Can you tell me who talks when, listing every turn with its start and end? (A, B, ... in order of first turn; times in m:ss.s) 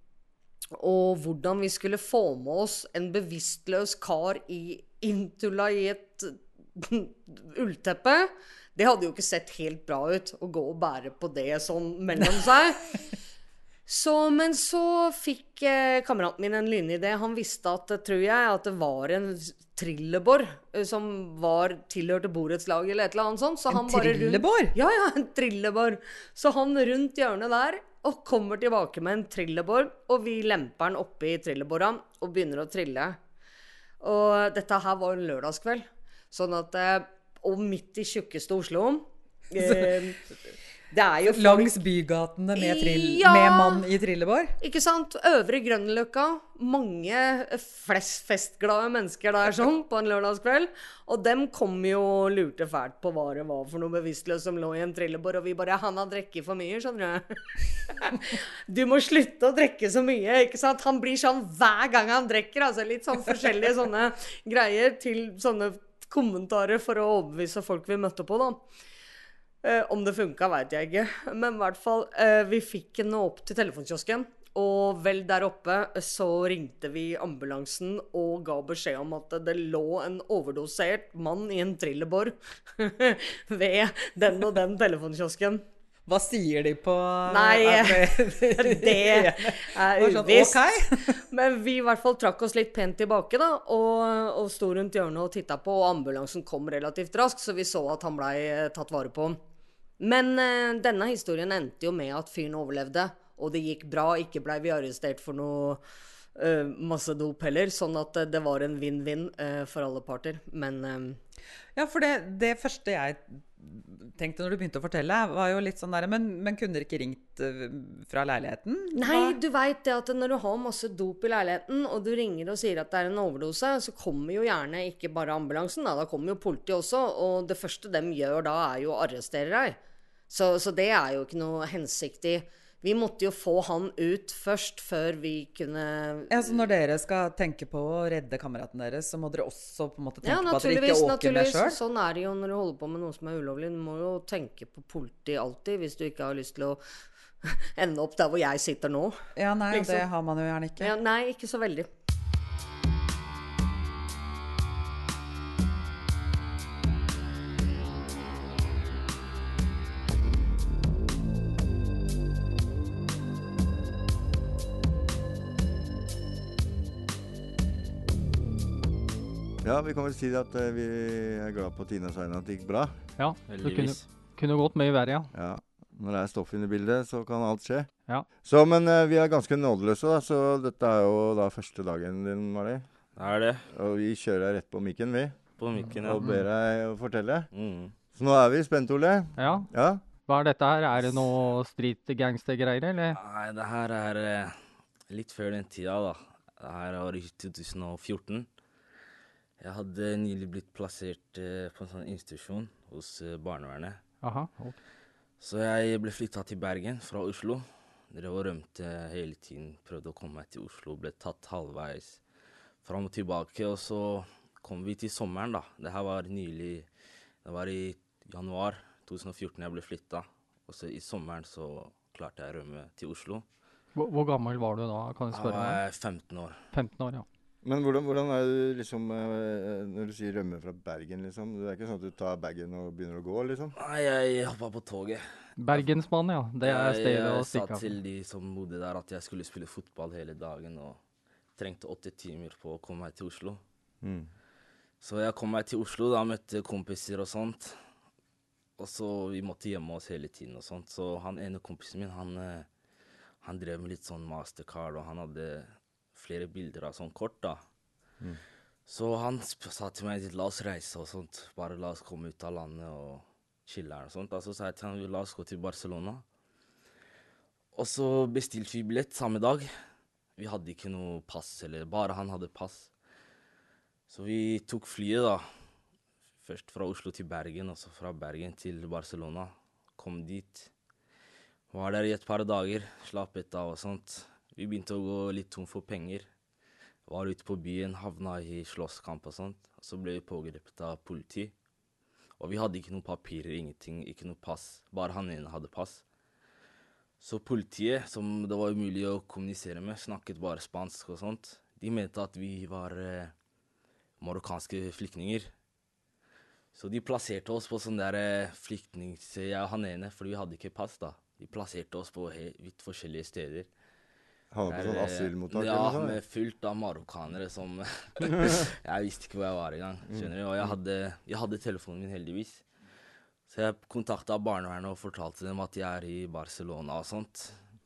0:00.8-0:12.9 A
0:13.9-0:33.2 A
0:23.7-0:24.7 B
0:34.0-0:40.3 A
0:39.6-0:39.9 B
0:40.9-0:41.7 A
0:41.2-0:44.6 B
0:42.6-0:43.8 A
0:44.6-1:08.6 A
1:09.6-1:25.6 A
1:26.1-1:31.2 B
1:27.3-1:30.6 A
1:31.2-1:39.4 A
1:40.0-1:45.8 A
1:46.4-1:51.2 A
1:51.8-1:59.4 B
1:58.9-2:09.8 A
2:10.3-2:16.6 A
2:16.3-2:21.8 B
2:20.2-2:26.8 A
2:27.4-2:29.2 A
2:29.4-2:31.0 B
2:29.7-2:30.0 A
2:30.8-2:31.9 A
2:49.6-2:53.0 C
2:53.2-2:55.3 D
2:53.5-2:54.1 E
2:55.3-2:57.9 C
2:58.4-3:02.8 C
3:03.2-3:03.7 E
3:03.7-3:07.5 C
3:05.6-3:06.3 E
3:07.5-3:07.9 E
3:08.1-3:10.0 C
3:09.4-3:09.7 D
3:10.3-3:13.2 D
3:13.2-3:14.6 E
3:15.1-3:18.5 E
3:19.6-3:24.0 E
3:24.2-3:24.8 D
3:25.4-3:32.2 E
3:32.8-3:36.9 E
3:37.4-3:43.4 E
3:44.0-3:45.8 D
3:45.3-3:46.6 E
3:46.7-3:47.3 D
3:47.6-3:53.8 C
3:53.8-3:55.9 E
3:55.6-3:57.9 D
3:56.6-4:01.0 E
4:01.6-4:03.6 E
4:04.0-4:04.3 C
4:05.0-4:07.8 E
4:08.8-4:12.7 E
4:13.4-4:17.6 E
4:18.9-4:26.2 E
4:27.7-4:29.7 E
4:30.4-4:32.9 E
4:34.1-4:35.4 E
4:36.4-4:40.7 E
4:41.7-4:46.3 E
4:47.1-4:51.5 E
4:52.4-4:56.0 E
4:57.2-5:03.3 E
5:04.2-5:05.5 E
5:06.7-5:13.7 E
5:14.5-5:16.2 C
5:14.7-5:22.6 E
5:23.5-5:27.6 E